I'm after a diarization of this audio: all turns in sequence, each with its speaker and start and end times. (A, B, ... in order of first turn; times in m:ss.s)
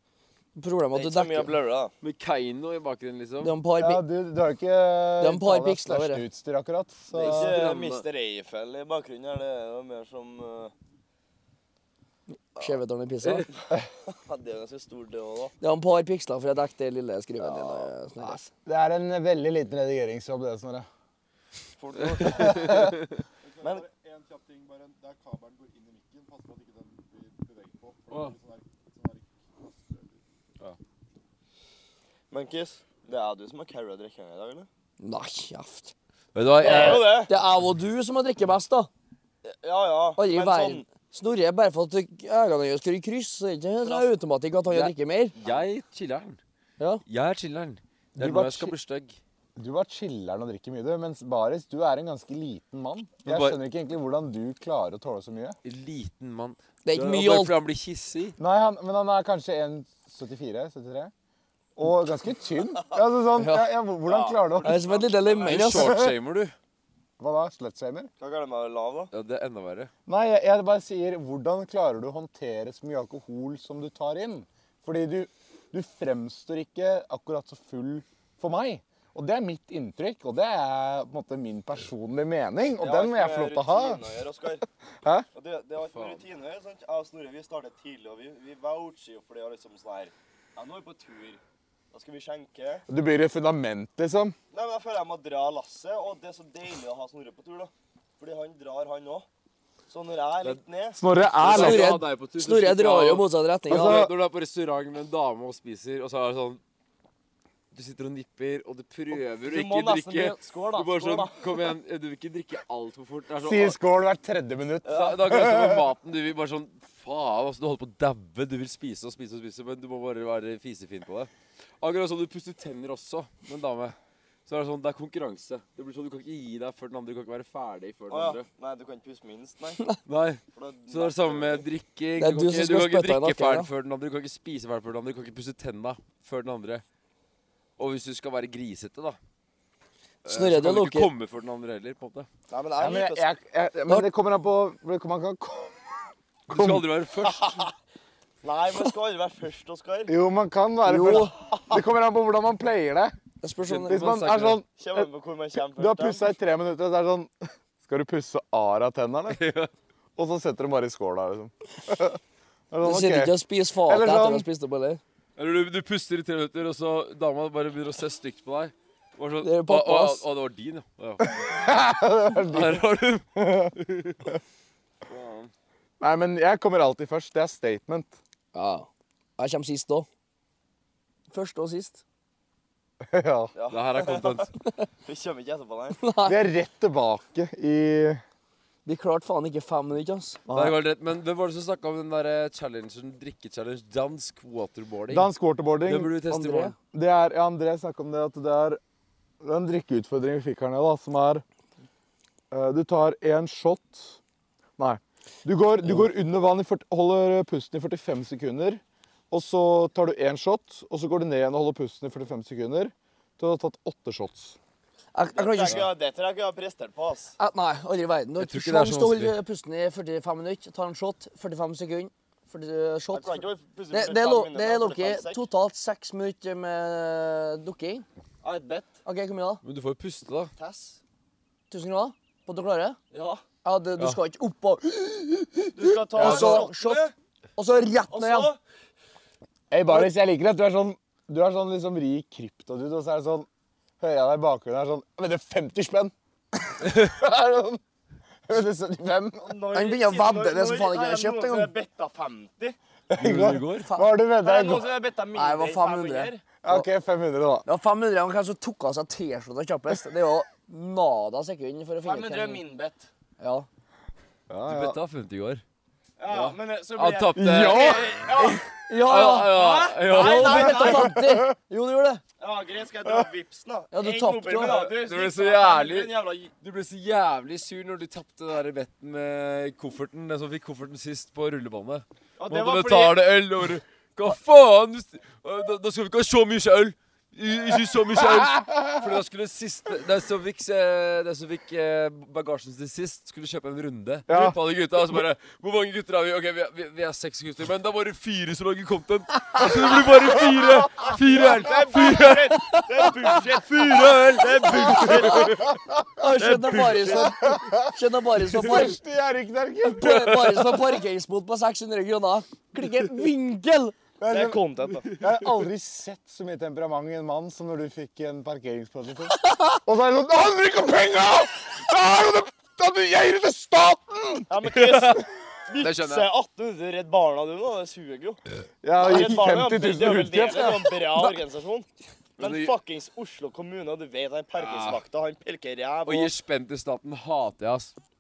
0:00.6-0:01.5 A
0:00.9-0:01.9 B
0:02.0-0:03.5 C
0:03.4-0:04.0 A
0:03.8-0:07.6 D
0:05.2-0:06.2 A
0:07.1-0:08.1 C
0:07.1-0:10.7 B
0:12.3-0:13.5 A
0:14.1-0:15.5 B
0:15.6-0:18.5 A
0:17.4-0:17.9 B
0:18.2-0:20.9 D
0:21.8-0:23.8 B
0:22.2-0:22.9 D
0:23.4-0:30.2 E
0:28.1-0:28.4 C
0:32.3-0:34.7 B
0:35.0-0:35.9 A
0:36.4-0:37.2 C
0:36.6-0:37.3 B
0:36.6-0:38.9 A
0:39.4-0:40.8 B
0:40.2-0:45.4 A
0:43.8-0:44.1 B
0:44.7-0:46.4 C
0:47.1-0:49.2 C
0:48.2-0:48.8 D
0:49.6-0:55.6 D
0:53.2-0:53.6 C
0:55.6-0:58.4 C
0:56.8-0:57.6 A
0:58.4-1:01.1 D
1:01.8-1:04.9 D
1:03.4-1:03.7 A
1:04.1-1:05.6 B
1:04.6-1:06.0 A
1:05.4-1:06.6 C
1:05.7-1:06.2 D
1:07.2-1:08.1 D
1:08.2-1:09.1 B
1:09.1-1:09.9 C
1:10.1-1:24.0 D
1:22.8-1:24.6 B
1:25.3-1:31.4 B
1:25.9-1:26.2 C
1:31.9-1:32.8 B
1:32.9-1:34.4 D
1:34.5-1:39.3 B
1:39.9-1:41.0 B
1:41.0-1:42.0 D
1:41.4-1:46.6 C
1:41.5-1:44.0 A
1:43.7-1:44.1 D
1:47.7-1:53.8 C
1:49.1-1:51.6 B
1:53.4-1:55.9 D
1:54.8-1:55.2 B
1:54.9-2:08.5 C
2:08.1-2:09.9 B
2:10.0-2:16.8 C
2:10.5-2:11.6 B
2:12.2-2:13.7 A
2:17.8-2:19.2 C
2:20.2-2:21.1 A
2:20.2-2:22.3 C
2:22.5-2:23.3 B
2:22.8-2:25.9 D
2:26.5-2:26.9 D
2:26.5-2:27.6 C
2:27.2-2:27.7 B
2:28.4-2:30.1 B
2:30.1-2:33.2 D
2:30.8-2:31.3 A
2:31.2-2:31.4 B
2:33.4-2:34.0 A
2:33.6-2:34.6 C
2:33.9-2:34.6 D
2:34.8-2:36.3 B
2:35.8-2:39.4 D
2:39.3-2:39.7 C
2:40.2-2:42.2 D
2:42.7-2:44.5 D
2:42.8-2:45.0 A
2:45.4-2:51.4 C
2:49.4-2:50.2 A
2:51.2-2:53.7 D
2:52.5-2:54.3 C
2:55.1-2:55.5 C
2:56.0-2:58.2 D
2:58.5-2:58.9 A
2:59.4-3:00.1 A
3:01.3-3:02.0 A
3:03.0-3:03.5 D
3:03.5-3:04.5 B
3:03.7-3:04.5 C
3:05.0-3:06.0 B
3:06.0-3:06.4 A
3:06.2-3:08.2 D
3:08.8-3:10.4 A
3:10.5-3:10.8 D
3:10.5-3:15.3 C
3:15.1-3:16.2 D
3:15.8-3:16.8 C
3:16.3-3:16.7 A
3:16.9-3:18.8 D
3:19.4-3:21.4 D
3:22.5-3:24.2 D
3:24.8-3:34.6 D
3:35.2-3:35.8 A
3:35.4-3:37.3 B
3:37.4-3:48.1 A
3:38.4-3:39.4 C
3:43.1-3:45.4 B
3:48.4-3:48.9 B
3:49.0-3:49.6 A
3:49.6-3:50.5 C
3:50.6-3:51.0 B
3:51.7-3:53.0 A
3:53.1-3:53.4 B
3:53.6-3:57.0 A
3:55.7-3:57.1 B
3:56.2-3:56.7 D
3:57.6-3:58.5 A
3:58.1-3:58.6 B
3:59.7-4:03.5 D
4:04.0-4:06.1 D
4:06.8-4:07.8 D
4:08.5-4:09.5 D
4:09.4-4:12.8 B
4:09.7-4:11.7 A
4:13.1-4:14.9 D
4:13.2-4:13.9 C
4:13.9-4:14.1 A
4:14.4-4:16.4 B
4:15.4-4:16.9 A
4:16.6-4:17.7 D
4:17.6-4:22.6 A
4:22.0-4:23.1 B
4:23.4-4:23.7 A
4:24.5-4:25.0 D
4:24.6-4:25.6 C
4:26.2-4:28.7 B
4:26.3-4:26.6 A
4:27.0-4:28.0 C
4:27.4-4:28.5 D
4:28.9-4:32.2 A
4:29.1-4:31.0 C
4:29.5-4:31.2 B
4:31.0-4:31.5 D
4:32.4-4:36.5 B
4:33.9-4:34.8 A
4:34.6-5:02.7 C
4:42.4-4:43.4 B
4:54.3-4:54.6 D
4:59.6-5:00.0 D
5:01.1-5:05.8 B
5:03.4-5:05.5 C
5:05.0-5:05.9 D
5:06.2-5:09.0 A
5:06.4-5:07.3 B
5:07.1-5:10.7 D
5:09.9-5:14.0 A
5:14.2-5:24.5 D
5:14.3-5:15.2 B
5:24.5-5:28.4 B
5:24.8-5:25.2 C
5:25.8-5:26.3 C
5:28.8-5:30.9 D
5:29.0-5:31.9 B
5:32.4-5:36.3 B
5:32.4-5:32.7 C
5:34.6-5:35.0 C
5:36.1-5:37.9 C